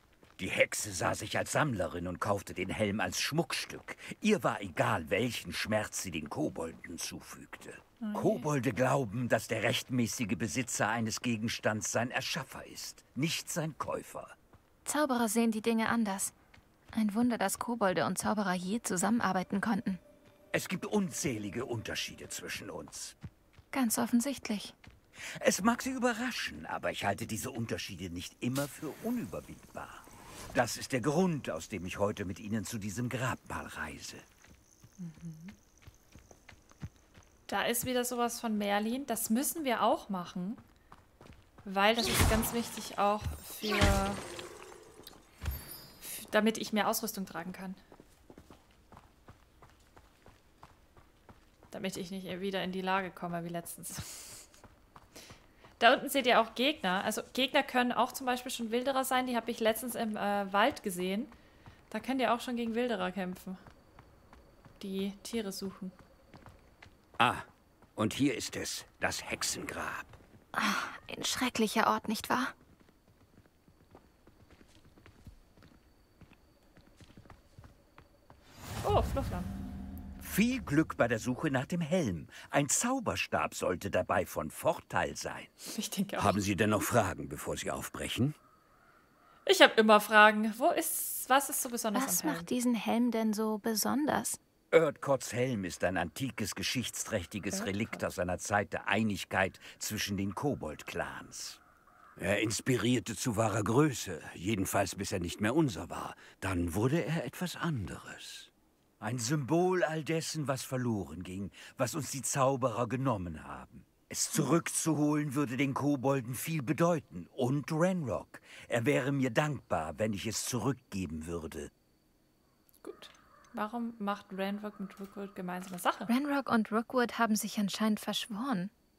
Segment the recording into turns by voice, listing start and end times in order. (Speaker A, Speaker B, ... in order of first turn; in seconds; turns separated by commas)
Speaker A: 0.4-14.3, Speaker B: 8.0-8.5, Speaker C: 14.8-16.3, Speaker C: 16.9-20.0, Speaker A: 20.5-23.1, Speaker C: 23.7-24.7, Speaker A: 25.2-34.2, Speaker B: 35.0-35.5, Speaker B: 37.5-40.6, Speaker B: 41.6-44.2, Speaker B: 46.0-47.8, Speaker B: 51.7-54.5, Speaker B: 55.8-61.3, Speaker B: 61.9-63.6, Speaker B: 64.8-65.9, Speaker A: 67.2-70.2, Speaker C: 70.5-72.5, Speaker B: 78.8-79.5, Speaker A: 80.2-85.5, Speaker B: 85.7-86.4, Speaker A: 86.2-88.3, Speaker B: 89.5-92.5, Speaker C: 91.9-94.4, Speaker A: 94.7-101.6, Speaker B: 97.5-98.0, Speaker A: 102.2-121.7, Speaker B: 122.8-126.1, Speaker C: 126.1-128.7